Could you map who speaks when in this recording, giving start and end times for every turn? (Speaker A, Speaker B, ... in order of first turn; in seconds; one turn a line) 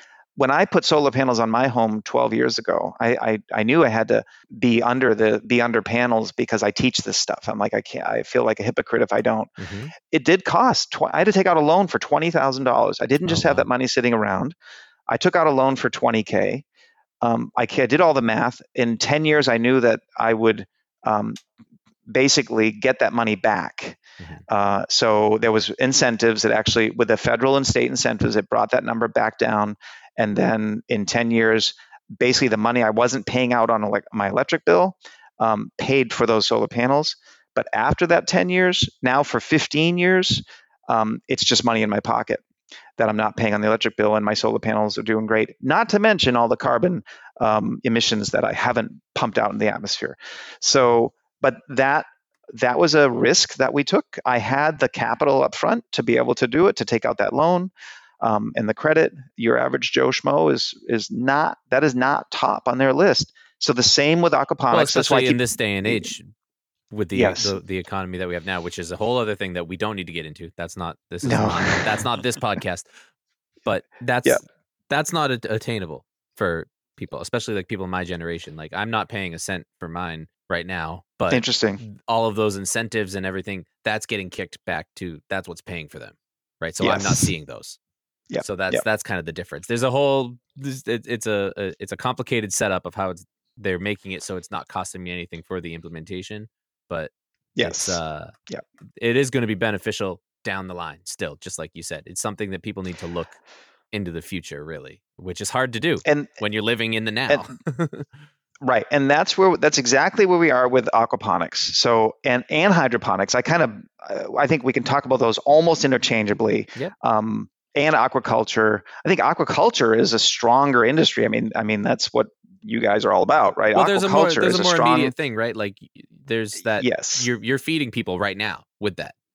Speaker A: 0.4-14.6
Speaker B: 9.6-9.9
Speaker B: 13.3-13.7
Speaker A: 15.1-16.6
Speaker A: 17.2-21.4
Speaker A: 22.1-42.4
Speaker A: 43.0-66.1
Speaker B: 64.7-66.3
Speaker B: 66.9-72.9
Speaker A: 67.1-67.5
Speaker A: 71.2-72.0
Speaker B: 73.7-87.8
Speaker A: 81.3-81.8
Speaker A: 86.8-87.3
Speaker A: 88.3-88.8
Speaker B: 88.4-98.3
Speaker A: 97.6-98.6
Speaker B: 99.0-103.4
Speaker B: 103.9-108.1
Speaker A: 106.0-106.4
Speaker A: 108.6-125.1
Speaker B: 123.7-129.2
Speaker A: 126.8-127.3